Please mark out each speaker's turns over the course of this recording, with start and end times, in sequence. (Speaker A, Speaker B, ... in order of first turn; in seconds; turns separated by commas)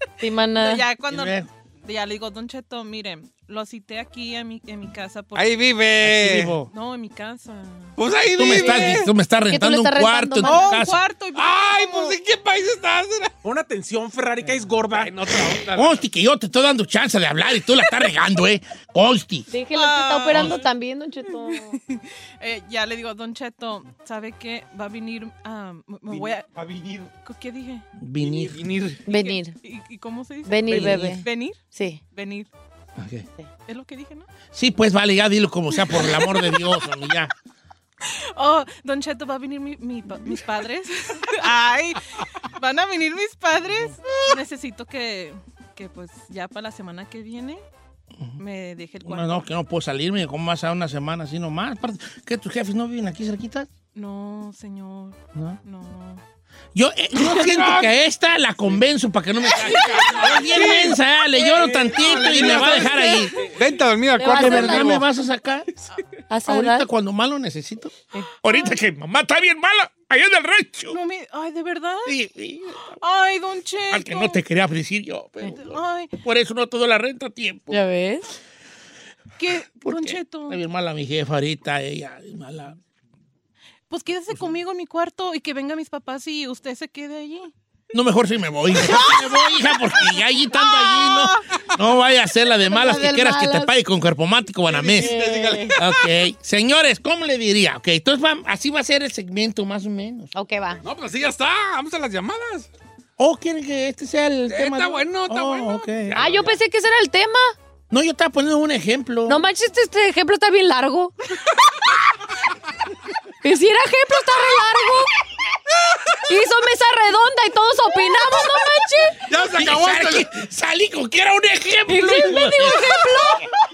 Speaker A: 0.2-0.9, Speaker B: 0.6-5.7, Speaker C: 1.1-1.5, Speaker D: 5.3-6.5, Speaker C: 6.0-6.7, Speaker B: 6.7-7.9, Speaker D: 8.0-9.1, Speaker C: 8.3-11.0, Speaker A: 9.5-10.8, Speaker B: 10.4-12.2, Speaker D: 11.3-13.3, Speaker E: 13.4-15.1, Speaker D: 14.9-16.0, Speaker C: 15.7-19.5, Speaker A: 19.5-21.8, Speaker B: 19.7-20.7, Speaker B: 21.2-26.4, Speaker D: 26.1-27.1, Speaker B: 27.2-27.8, Speaker C: 28.0-28.7, Speaker D: 28.2-29.0, Speaker A: 29.1-29.6, Speaker B: 29.1-32.5, Speaker A: 30.4-32.0, Speaker C: 30.8-31.1, Speaker C: 33.0-33.3, Speaker B: 33.7-34.3, Speaker C: 34.5-37.3, Speaker B: 35.9-36.7, Speaker B: 38.0-42.0, Speaker B: 42.5-47.6, Speaker B: 48.4-49.4, Speaker C: 49.0-53.7, Speaker B: 53.9-56.2, Speaker C: 56.7-63.4, Speaker D: 57.4-57.9, Speaker D: 59.7-65.0, Speaker B: 60.0-60.3, Speaker E: 61.5-63.5, Speaker A: 64.2-65.0, Speaker C: 64.3-65.7, Speaker A: 66.3-66.9, Speaker C: 66.5-71.0, Speaker B: 68.5-68.8, Speaker B: 70.9-72.1, Speaker C: 72.1-72.8, Speaker B: 73.0-74.4, Speaker C: 73.9-77.8, Speaker B: 75.4-76.1, Speaker A: 77.7-78.4, Speaker B: 79.4-80.6, Speaker C: 79.8-82.8, Speaker B: 83.9-87.5, Speaker C: 87.9-95.1, Speaker B: 88.7-91.4, Speaker A: 92.6-93.7, Speaker D: 94.7-95.8, Speaker A: 95.0-95.7, Speaker C: 95.8-100.3, Speaker A: 100.3-100.8, Speaker D: 100.8-102.7, Speaker C: 103.2-106.2, Speaker D: 104.5-106.5, Speaker A: 106.1-107.5, Speaker C: 107.9-109.4, Speaker A: 109.2-111.1, Speaker A: 113.4-115.1, Speaker A: 116.3-119.2, Speaker D: 119.3-120.3, Speaker C: 119.5-123.0, Speaker A: 121.9-123.5